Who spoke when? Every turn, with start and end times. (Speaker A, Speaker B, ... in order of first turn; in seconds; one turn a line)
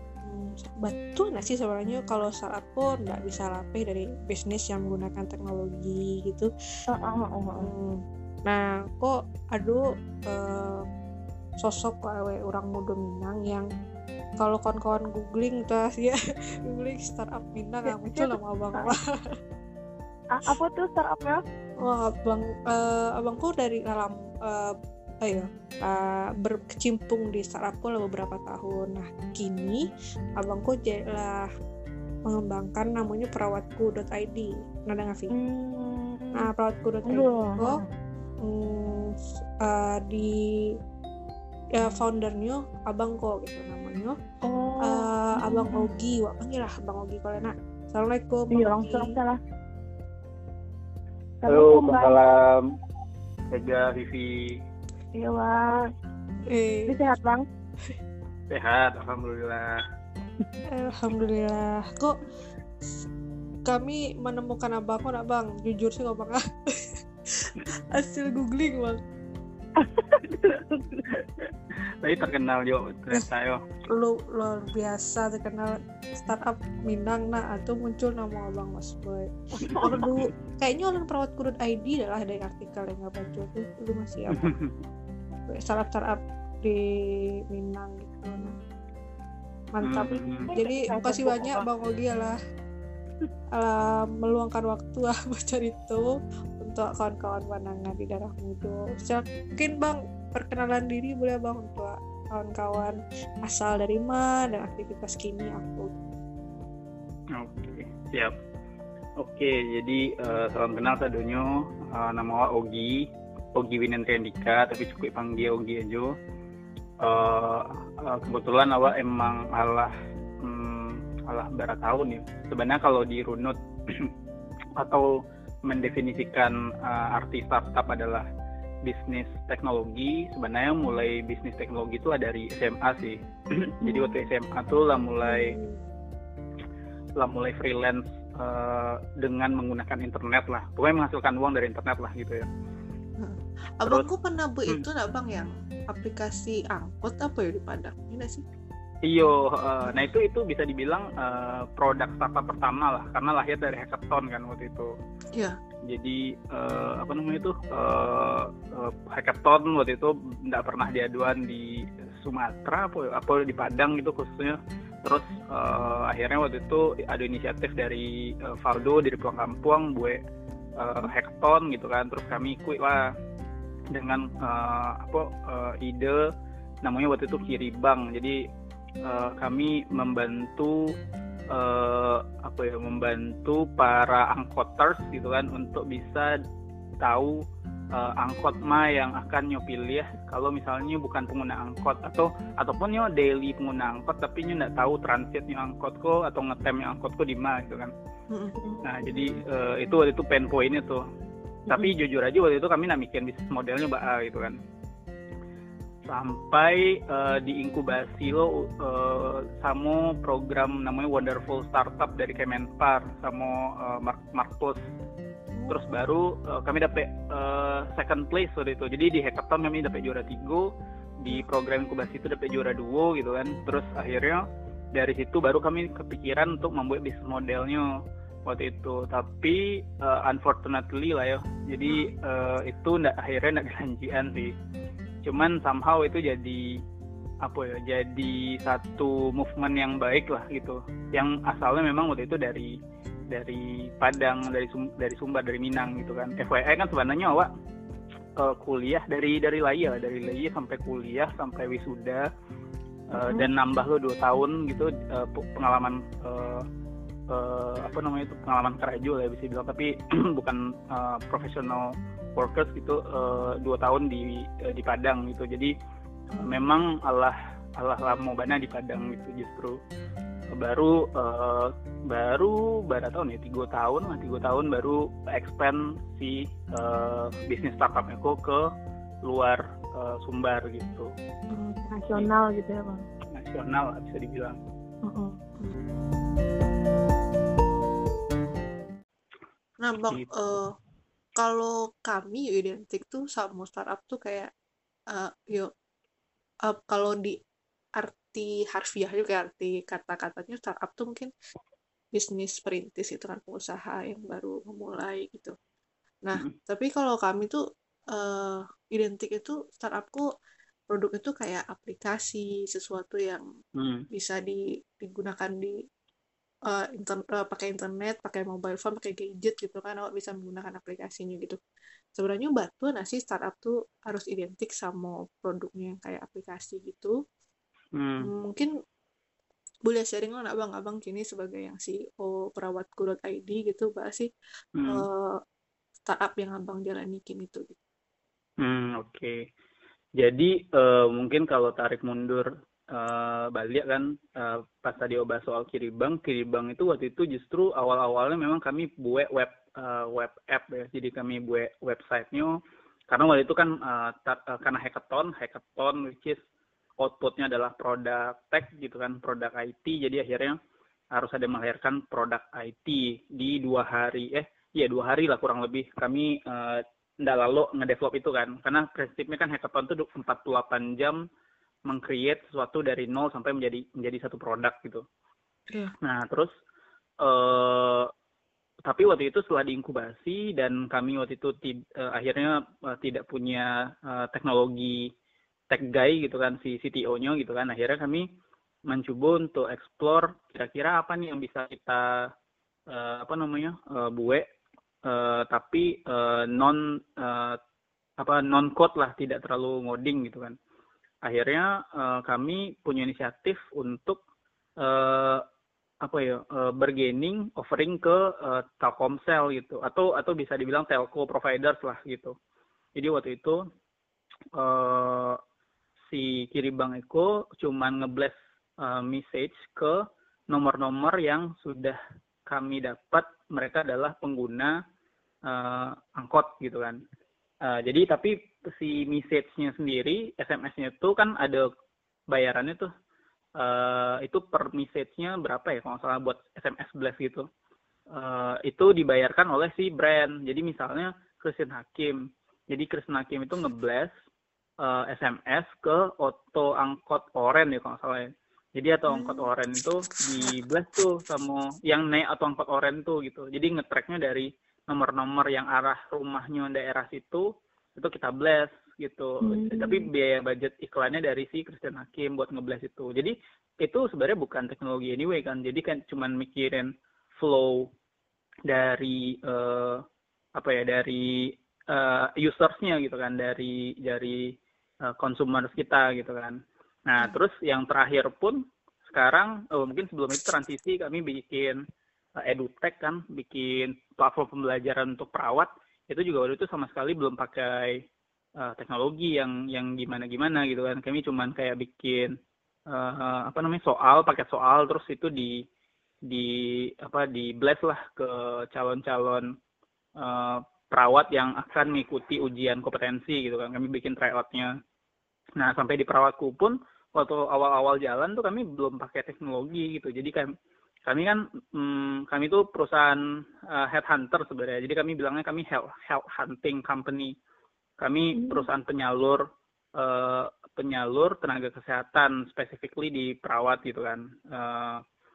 Speaker A: 0.2-6.5
Speaker B: 6.9-7.7
Speaker A: 7.6-10.8
Speaker A: 11.6-13.7
Speaker A: 14.4-19.0
Speaker B: 17.9-19.0
Speaker B: 20.4-21.4
Speaker A: 21.8-24.7
Speaker A: 25.2-29.8
Speaker A: 30.4-31.4
Speaker A: 32.3-35.3
Speaker B: 35.3-36.5
Speaker A: 36.4-37.8
Speaker B: 37.1-37.9
Speaker A: 38.5-39.1
Speaker A: 39.6-40.3
Speaker A: 41.8-44.2
Speaker B: 44.4-45.9
Speaker A: 44.8-49.1
Speaker B: 48.5-49.4
Speaker B: 51.4-52.2
Speaker C: 51.5-52.7
Speaker C: 53.5-54.6
Speaker B: 55.1-55.8
Speaker A: 56.5-57.0
Speaker B: 56.9-57.5
Speaker C: 58.5-59.8
Speaker A: 60.8-62.2
Speaker A: 63.7-66.4
Speaker A: 67.4-69.0
Speaker B: 69.8-71.1
Speaker C: 71.1-71.5
Speaker C: 72.0-73.6
Speaker A: 73.9-79.3
Speaker C: 79.6-80.3
Speaker A: 79.8-84.5
Speaker C: 84.3-84.7
Speaker A: 85.5-86.8
Speaker A: 87.5-88.5
Speaker A: 89.8-92.4
Speaker C: 89.8-90.5
Speaker B: 90.5-91.7
Speaker A: 93.6-96.1
Speaker A: 96.6-105.9
Speaker C: 107.4-108.3
Speaker C: 109.2-116.1
Speaker C: 117.0-124.1
Speaker C: 124.8-125.1
Speaker C: 125.7-128.3
Speaker C: 128.8-135.6
Speaker A: 135.3-135.8
Speaker C: 137.2-142.5
Speaker A: 143.2-148.4
Speaker C: 149.1-154.9
Speaker C: 155.9-170.2
Speaker C: 170.8-173.1
Speaker C: 173.9-176.3
Speaker C: 176.8-178.4
Speaker C: 179.0-180.8
Speaker C: 181.5-186.3
Speaker C: 187.0-187.4
Speaker C: 187.9-197.9
Speaker A: 198.3-198.8
Speaker C: 198.8-201.0
Speaker C: 201.7-204.6
Speaker C: 206.1-214.8
Speaker C: 215.7-220.7
Speaker C: 221.2-227.9
Speaker C: 228.5-234.5
Speaker C: 235.2-236.8
Speaker C: 237.4-242.7
Speaker C: 243.3-247.5
Speaker C: 248.4-252.2
Speaker C: 253.1-256.6
Speaker C: 257.3-265.7
Speaker A: 266.3-266.6
Speaker C: 266.4-269.8
Speaker C: 270.5-278.7
Speaker C: 279.2-281.1
Speaker A: 281.5-282.0
Speaker B: 281.9-283.0
Speaker C: 283.3-284.6
Speaker A: 285.1-285.8
Speaker A: 289.8-290.7
Speaker A: 291.4-294.5
Speaker A: 295.1-295.7
Speaker A: 296.7-297.4
Speaker A: 298.0-301.3
Speaker A: 302.1-305.6
Speaker A: 306.2-307.6
Speaker A: 308.1-310.2
Speaker A: 310.9-313.4
Speaker C: 313.8-314.1
Speaker A: 314.1-315.8
Speaker A: 316.7-321.6
Speaker A: 322.2-327.1
Speaker C: 327.9-328.3
Speaker A: 328.2-328.7
Speaker A: 329.9-334.3
Speaker C: 334.8-335.1
Speaker A: 334.9-335.4
Speaker A: 336.1-337.8
Speaker C: 338.6-339.5
Speaker C: 340.2-356.4
Speaker C: 357.0-360.6
Speaker C: 361.1-371.2
Speaker C: 371.9-375.1
Speaker C: 376.0-376.5
Speaker C: 377.2-378.1
Speaker C: 378.9-385.1
Speaker C: 385.7-388.3
Speaker C: 388.9-392.3
Speaker C: 392.9-394.5
Speaker C: 395.1-397.6
Speaker C: 398.2-400.6
Speaker C: 401.2-404.2
Speaker C: 404.8-405.4
Speaker C: 406.0-412.4
Speaker C: 412.9-413.6
Speaker C: 414.6-415.4
Speaker C: 416.1-424.8
Speaker C: 425.5-427.0
Speaker C: 427.6-431.7
Speaker C: 432.3-432.9
Speaker C: 433.6-437.5
Speaker C: 438.1-444.1
Speaker C: 444.8-467.9
Speaker A: 449.1-449.5
Speaker B: 459.4-460.1
Speaker C: 468.7-470.0
Speaker C: 470.6-481.8
Speaker C: 482.4-488.1
Speaker C: 488.6-492.3
Speaker C: 492.9-495.6
Speaker C: 496.3-499.6
Speaker C: 500.2-504.8
Speaker C: 505.6-510.5
Speaker C: 511.1-517.3
Speaker C: 518.0-525.0
Speaker B: 518.4-518.7